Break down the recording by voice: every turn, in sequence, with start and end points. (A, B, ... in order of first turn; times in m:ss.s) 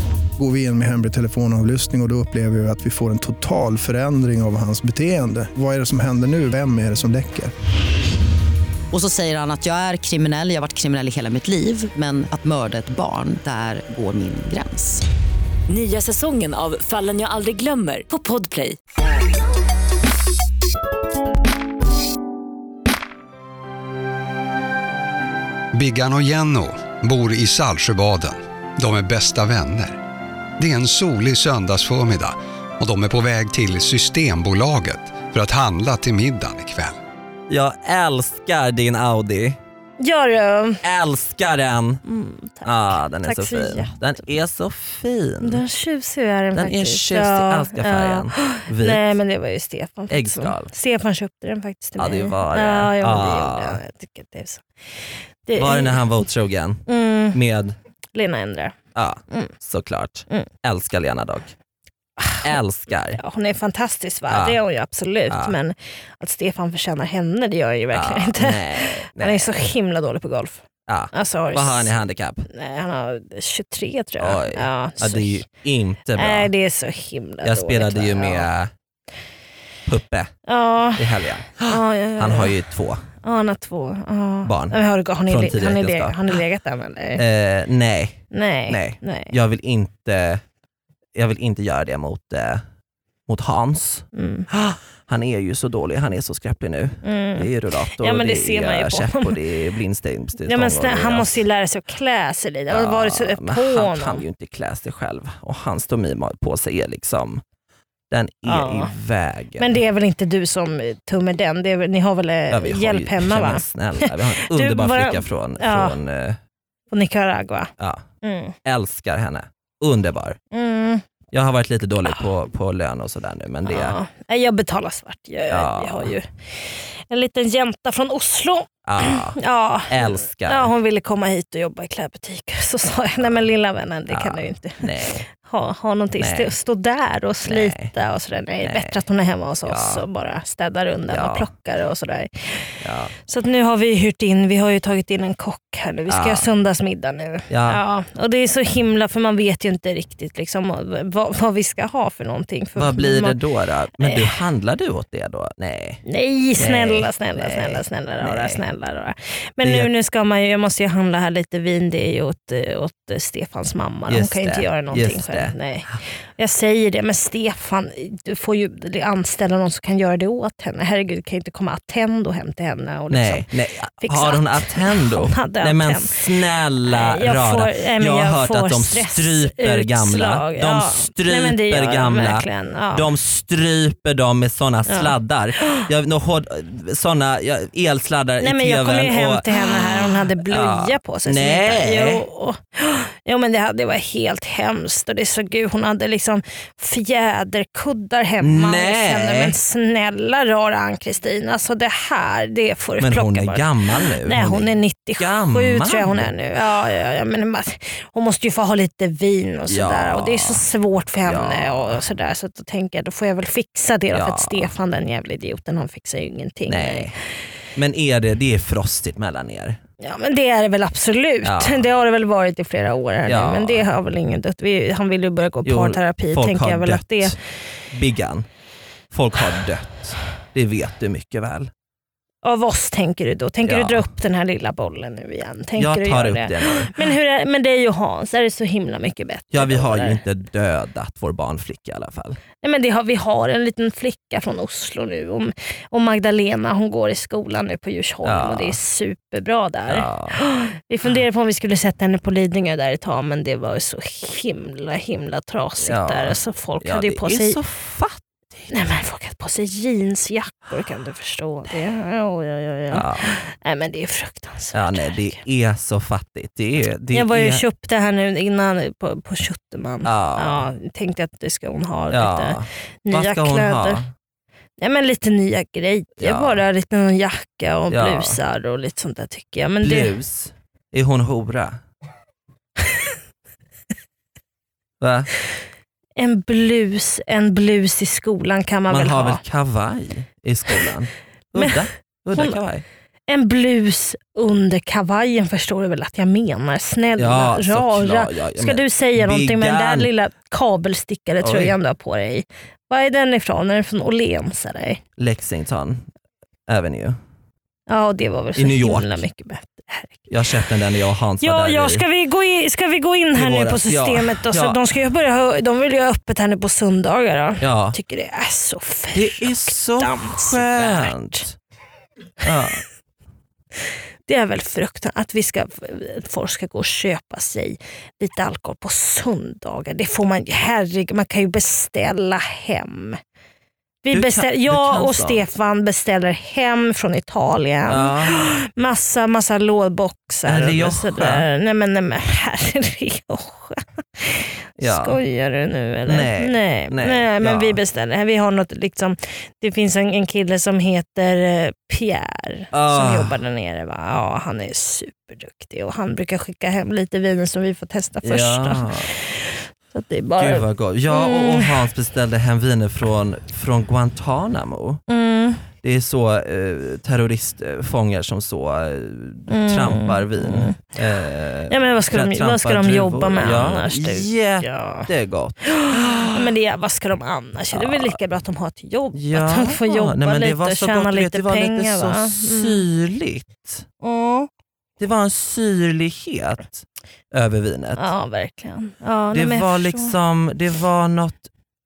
0:00.4-0:07.5 A
0:08.9-0:15.0 B
0:15.7-0:18.8 C
0:25.7-0:30.0 D
0:30.6-0:37.0 D
0:37.5-0:39.6 E
0:40.0-0:40.8 F
0:40.8-0:42.0 E
0:42.0-0:44.0 F
0:42.6-0:45.6 E
0:45.4-0:54.6 F
0:46.6-0:49.2 E
0:50.1-0:50.7 E
0:52.0-0:53.8 E
0:55.5-0:56.0 F
0:55.6-0:57.8 E
0:56.9-0:57.4 F
0:58.1-0:58.8 F
0:59.0-1:01.5 E
1:02.2-1:02.5 F
1:02.4-1:03.2 E
1:03.1-1:11.9 F
1:04.3-1:04.6 E
1:05.3-1:05.6 E
1:07.9-1:09.7 E
1:10.9-1:12.5 E
1:12.5-1:15.4 F
1:14.2-1:16.5 E
1:16.2-1:18.5 F
1:17.4-1:18.7 E
1:19.9-1:20.3 E
1:20.5-1:22.5 F
1:21.0-1:23.1 E
1:23.2-1:27.2 F
1:24.4-1:26.4 E
1:27.2-1:30.4 E
1:28.3-1:29.3 F
1:31.2-1:32.6 E
1:33.3-1:41.4 E
1:34.1-1:34.5 F
1:37.0-1:39.4 F
1:40.5-1:44.2 F
1:42.7-1:47.4 E
1:48.1-1:49.8 E
1:48.4-1:48.9 F
1:49.6-1:56.0 F
1:52.5-1:56.4 E
1:56.9-1:57.7 F
1:57.8-1:58.1 E
1:58.2-1:58.6 F
1:58.6-2:00.4 E
2:00.5-2:01.0 F
2:01.3-2:04.0 E
2:03.7-2:33.4 F
2:05.5-2:06.1 E
2:08.9-2:10.7 E
2:14.1-2:15.2 E
2:16.2-2:16.5 E
2:17.4-2:17.9 E
2:18.6-2:19.0 E
2:19.7-2:20.0 E
2:21.1-2:21.5 E
2:22.8-2:23.1 E
2:26.1-2:26.5 E
2:27.5-2:27.8 E
2:32.8-2:36.0 E
2:34.0-2:34.3 F
2:36.0-2:53.5 F
2:36.6-2:38.6 E
2:39.6-2:39.9 E
2:44.1-2:45.6 E
2:53.1-3:12.2 E
2:54.0-2:56.3 F
2:56.8-3:03.1 F
3:04.9-3:05.9 F
3:08.4-3:37.1 F
3:18.4-3:19.6 E
3:23.0-3:26.3 E
3:29.7-3:30.6 E
3:31.2-3:32.0 E
3:34.1-3:34.7 E
3:36.7-3:37.2 E
3:37.8-3:39.8 E
3:40.0-3:47.4 F
3:41.4-3:41.9 E
3:43.2-3:43.9 E
3:45.6-3:47.4 E
3:47.9-3:48.5 E
3:49.1-3:51.7 E
3:52.4-4:00.2 F
3:53.6-3:54.1 E
3:55.8-3:57.0 E
3:59.5-4:02.4 E
4:02.6-4:17.6 F
4:08.2-4:08.8 E
4:09.9-4:10.4 E
4:15.8-4:18.7 E
4:18.7-4:25.4 F
4:22.9-4:23.4 E
4:24.7-4:27.6 E
4:27.1-4:34.0 F
4:30.0-4:30.7 E
4:32.1-4:34.1 E
4:34.8-4:40.2 F
4:36.2-4:36.6 E
4:37.9-4:38.4 E
4:39.8-4:41.8 E
4:45.0-4:45.3 E
4:46.2-4:49.4 F
4:48.9-4:52.8 E
4:52.3-4:52.6 F
4:53.3-5:05.0 F
4:57.2-5:00.1 E
5:01.4-5:01.8 E
5:05.2-5:06.1 E
5:06.7-5:07.2 E
5:07.9-5:10.3 F
5:08.6-5:09.2 E
5:10.3-5:12.0 E
5:11.4-5:21.4 F
5:13.3-5:14.8 E
5:17.6-5:18.0 E
5:19.1-5:21.6 E
5:22.4-5:22.8 E
5:24.3-5:33.2 F
5:34.0-6:01.8 F
5:34.1-5:35.4 E
5:37.9-5:38.5 E
5:40.5-5:41.5 E
5:44.8-5:45.2 E
5:46.1-5:47.8 E
5:52.7-5:53.4 E
5:58.2-5:59.1 E
6:00.4-6:05.0 E
6:05.1-6:05.7 F
6:05.8-6:16.5 E
6:09.5-6:10.8 F
6:11.7-6:15.1 F
6:15.6-6:22.9 F
6:17.7-6:18.2 E
6:19.1-6:23.9 E
6:24.0-6:24.5 F
6:25.0-6:28.1 E
6:28.0-6:30.2 F
6:29.3-6:31.5 E